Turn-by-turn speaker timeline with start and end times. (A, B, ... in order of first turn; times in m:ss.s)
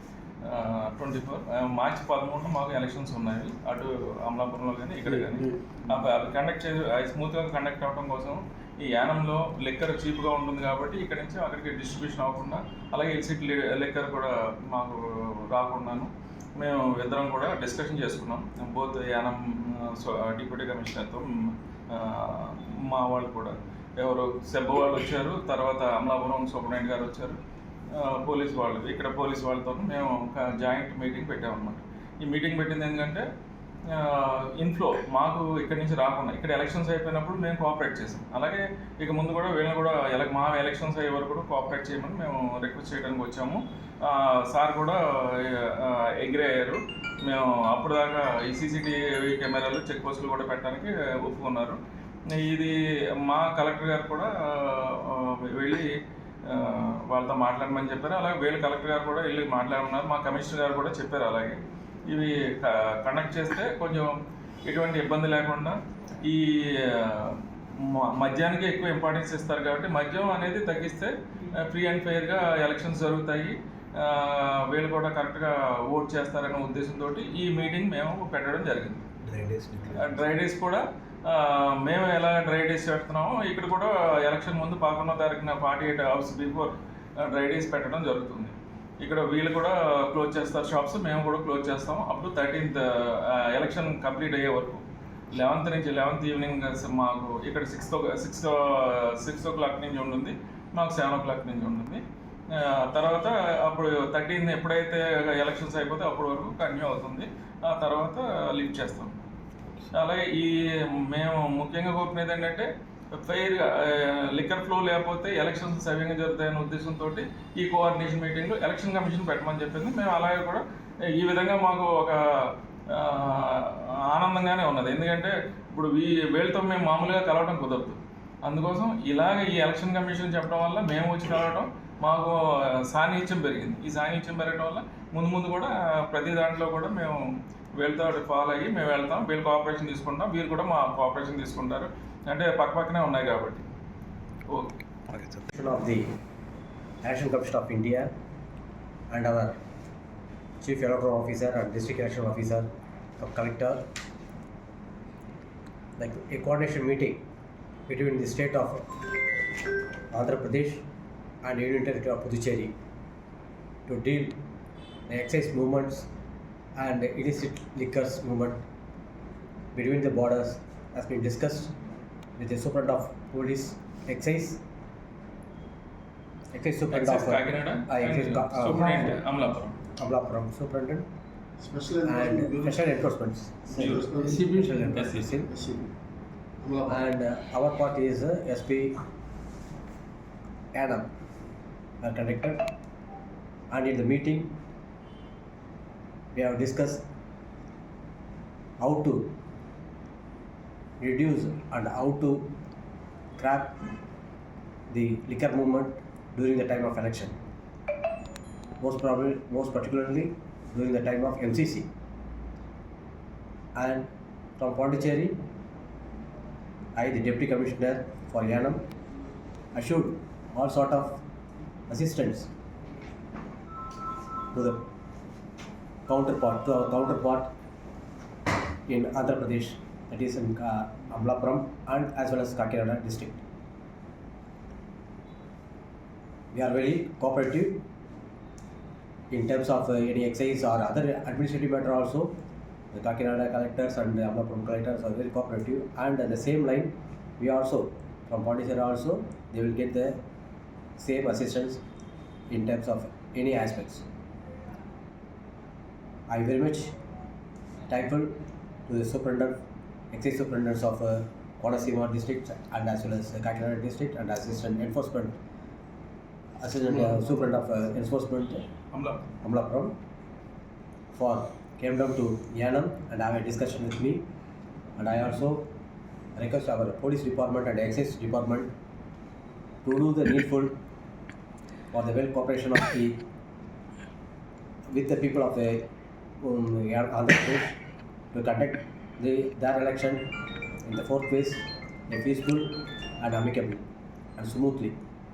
0:00.4-0:27.4 A
0:27.9-0:33.2 A
0:33.9-0:51.8 A
0:52.3-0:52.7 A
0:53.2-0:55.9 A
0:56.4-1:04.1 A
1:04.7-1:19.0 A
1:19.2-1:20.0 B
1:19.9-1:49.2 A
1:49.9-2:00.6 A
2:01.1-2:17.2 A
2:17.8-2:23.6 A
2:24.5-2:24.8 A
2:25.2-2:26.1 B
2:27.0-2:28.1 B
2:29.1-2:29.6 B
2:30.6-2:32.7 B
2:33.2-2:33.8 B
2:36.0-2:37.2 B
2:37.9-2:38.8 B
2:40.1-2:40.9 B
2:41.4-2:42.7 B
2:43.9-2:44.4 B
2:45.1-2:46.1 B
2:46.8-2:48.6 B
2:49.7-2:51.8 B
2:52.4-2:54.6 B
2:56.5-2:59.1 B
2:56.9-2:59.8 A
3:00.0-3:01.1 B
3:01.6-3:03.0 C
3:02.0-3:05.5 B
3:03.7-3:05.4 A
3:03.7-3:05.9 C
3:06.6-3:07.0 C
3:06.8-3:09.0 B
3:10.7-3:11.1 B
3:12.0-3:12.6 B
3:13.7-3:14.6 B
3:16.3-3:17.0 B
3:18.8-3:19.3 B
3:21.0-3:22.5 B
3:23.4-3:23.8 B
3:24.9-3:27.4 B
3:28.8-3:31.9 B
3:33.7-3:35.4 B
3:36.9-3:38.8 B
3:39.7-3:41.2 B
3:41.9-3:42.5 B
3:44.5-3:44.8 B
3:46.1-3:47.5 B
3:48.9-3:53.4 B
3:56.5-3:57.8 B
3:59.3-4:02.4 B
4:02.9-4:10.2 B
4:11.0-4:11.8 B
4:12.5-4:14.0 B
4:16.3-4:16.9 B
4:17.9-4:19.6 B
4:20.1-4:25.3 B
4:26.6-4:28.7 B
4:28.9-4:29.2 A
4:29.4-4:30.0 B
4:31.1-4:34.2 B
4:35.0-4:35.7 B
4:36.3-4:38.7 B
4:39.8-4:40.8 B
4:41.9-4:43.2 B
4:44.9-4:45.9 B
4:46.4-4:47.8 B
4:48.3-4:50.3 B
4:50.8-4:53.8 B
4:54.4-4:55.0 B